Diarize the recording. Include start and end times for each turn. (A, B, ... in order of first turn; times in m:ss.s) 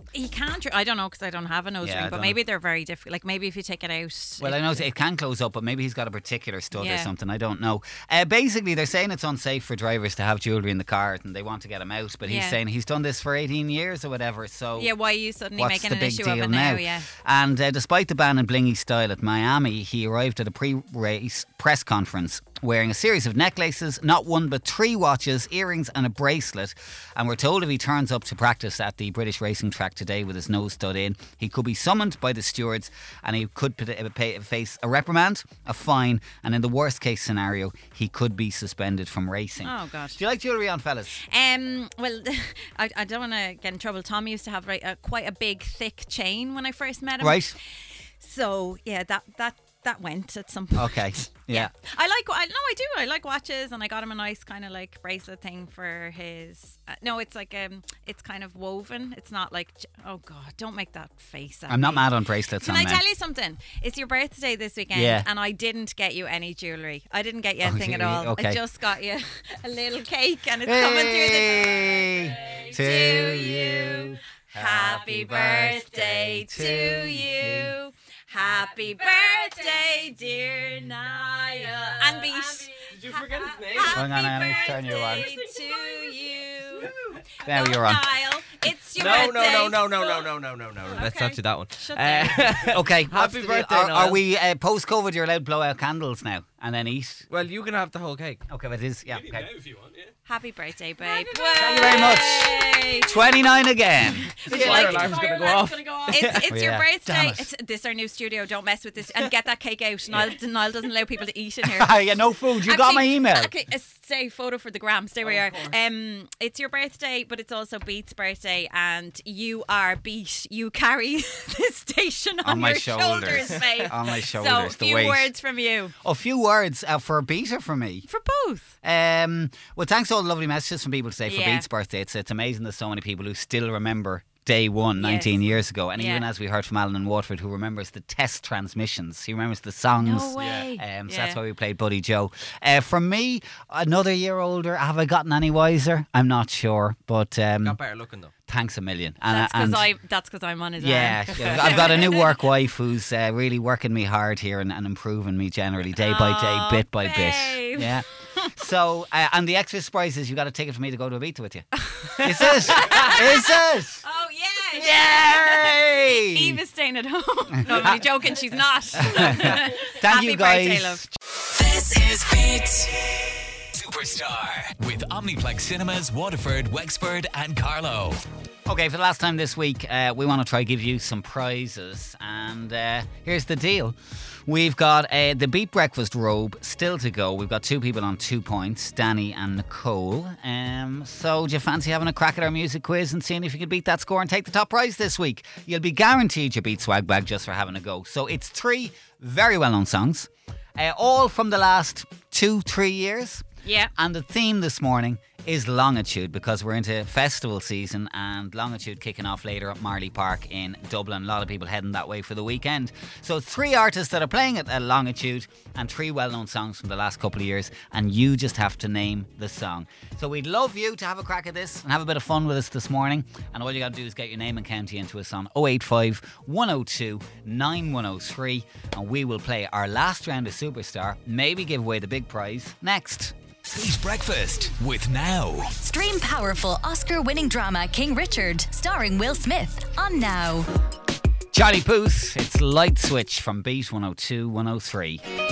0:00.1-0:04.8 A
0:01.8-0:02.4 B
0:04.4-0:14.9 B
0:06.7-0:07.1 A
0:12.2-0:12.6 A
0:14.8-0:17.1 A
0:15.6-0:41.2 B
0:39.6-0:40.2 A
0:41.2-0:47.5 A
0:47.2-0:47.5 B
0:48.2-1:02.0 A
0:50.7-0:51.7 B
1:01.7-1:03.0 B
1:02.6-1:30.3 A
1:04.9-1:05.3 B
1:07.6-1:08.6 B
1:10.6-1:17.7 B
1:22.8-1:24.5 C
1:23.9-1:25.4 B
1:27.4-1:28.1 B
1:28.9-1:34.2 C
1:30.9-1:32.6 A
1:32.6-1:37.3 B
1:37.3-1:38.4 C
1:38.5-1:39.5 B
1:39.1-1:40.1 C
1:40.2-1:43.2 A
1:41.1-1:42.3 C
1:41.6-1:45.2 B
1:44.0-1:52.0 A
1:44.4-1:46.4 C
1:46.1-1:47.5 B
1:51.6-1:53.5 B
1:52.6-2:05.9 A
1:55.2-1:55.7 C
2:02.4-2:05.3 B
2:06.0-2:08.1 B
2:08.1-2:08.7 A
2:08.8-2:27.8 B
2:11.2-2:11.6 A
2:15.0-2:15.4 A
2:16.0-2:16.2 A
2:20.0-2:21.4 A
2:27.6-2:28.3 C
2:28.5-2:29.9 B
2:29.3-2:32.3 A
2:30.8-2:44.0 B
2:31.4-2:31.7 C
2:36.0-2:38.0 A
2:41.9-2:51.0 A
2:44.7-2:46.6 B
2:47.5-2:48.4 B
2:48.9-2:51.1 B
2:51.5-2:52.9 D
2:53.7-2:58.2 D
2:58.6-3:53.3 B
3:23.6-3:23.9 A
3:53.6-3:55.8 D
3:55.8-4:00.7 E
4:01.5-4:05.2 B